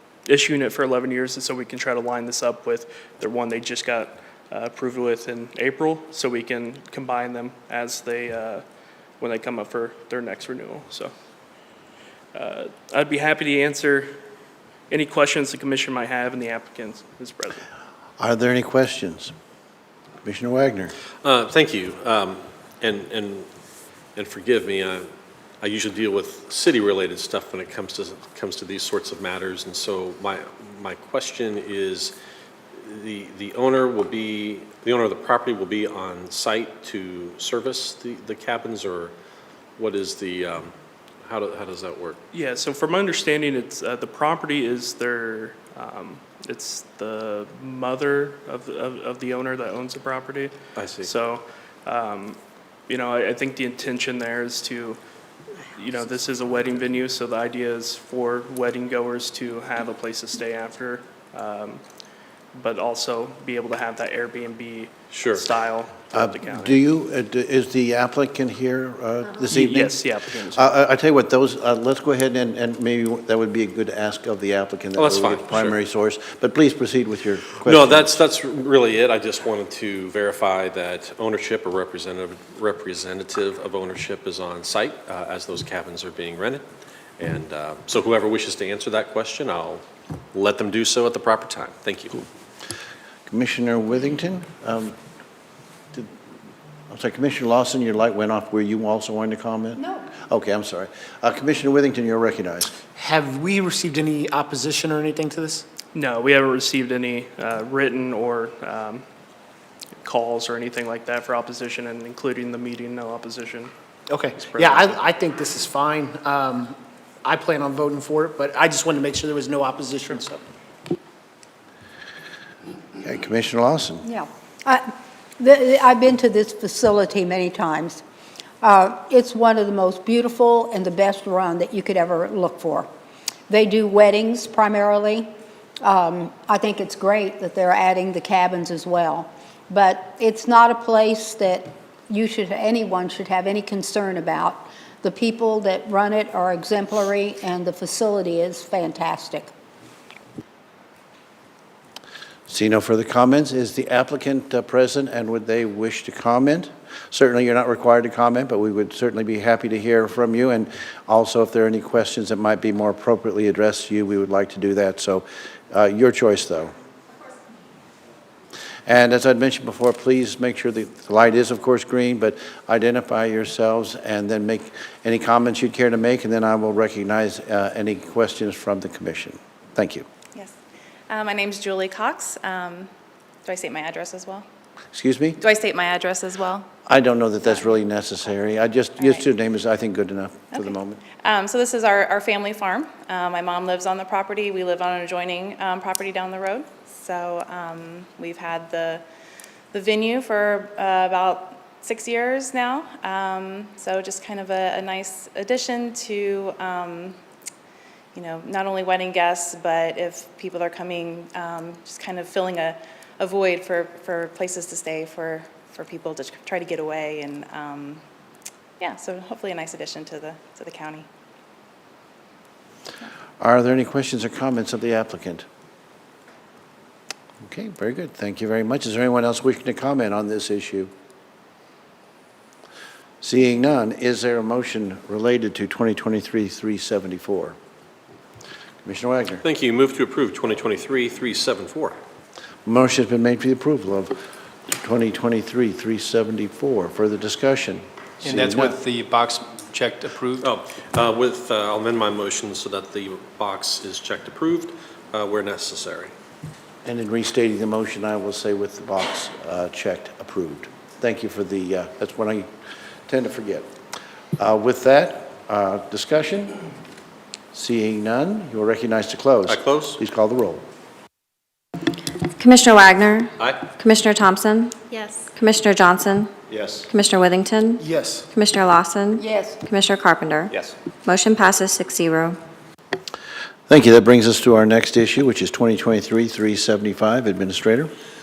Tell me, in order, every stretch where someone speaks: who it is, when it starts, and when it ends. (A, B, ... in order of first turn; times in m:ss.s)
0:00.2-0:08.6 A
0:09.2-0:11.1 A
0:12.3-0:14.2 A
0:14.9-0:17.6 A
0:18.2-0:19.3 B
0:20.2-0:20.9 B
0:21.2-0:23.4 C
0:24.2-0:25.1 C
0:25.6-0:32.1 C
0:32.8-0:39.1 C
0:39.8-0:40.7 C
0:41.2-0:42.2 C
0:42.3-0:55.0 A
0:50.8-0:51.1 C
0:55.7-1:01.8 A
1:02.5-1:06.8 A
1:05.1-1:05.4 C
1:06.1-1:18.2 B
1:09.5-1:10.8 A
1:15.0-1:15.8 C
1:17.6-1:26.6 C
1:27.2-1:29.8 C
1:30.3-1:32.2 C
1:33.3-1:34.9 B
1:36.9-1:42.7 B
1:39.8-1:40.0 D
1:42.9-1:45.6 E
1:45.9-1:49.0 A
1:50.0-1:53.7 A
1:54.1-2:00.4 E
1:54.3-1:55.0 A
2:03.0-2:04.0 B
2:04.0-2:08.0 D
2:08.6-2:12.9 D
2:13.5-2:15.3 D
2:15.8-2:29.5 D
2:32.5-2:46.7 B
2:48.8-3:00.0 B
3:01.1-3:02.9 F
3:03.4-3:04.4 F
3:04.9-3:05.4 B
3:05.4-3:06.7 F
3:06.8-3:11.0 B
3:07.4-3:07.8 F
3:09.0-3:09.3 F
3:10.5-3:19.0 F
3:19.7-3:27.2 F
3:28.1-3:38.0 F
3:38.8-3:41.1 F
3:43.4-3:45.4 B
3:47.4-3:50.9 B
3:53.2-3:57.6 B
3:58.8-3:59.4 B
3:59.4-4:02.0 C
4:02.6-4:04.2 B
4:04.7-4:08.8 B
4:08.2-4:10.5 G
4:10.4-4:16.1 C
4:16.8-4:22.5 B
4:23.1-4:23.7 B
4:24.4-4:26.6 B
4:27.5-4:30.6 B
4:29.5-4:30.0 C
4:32.4-4:34.8 H
4:33.4-4:33.7 C
4:35.3-4:36.3 H
4:36.8-4:40.5 H
4:37.8-4:38.2 E
4:39.2-4:39.6 D
4:41.0-4:42.4 H
4:43.7-4:47.9 B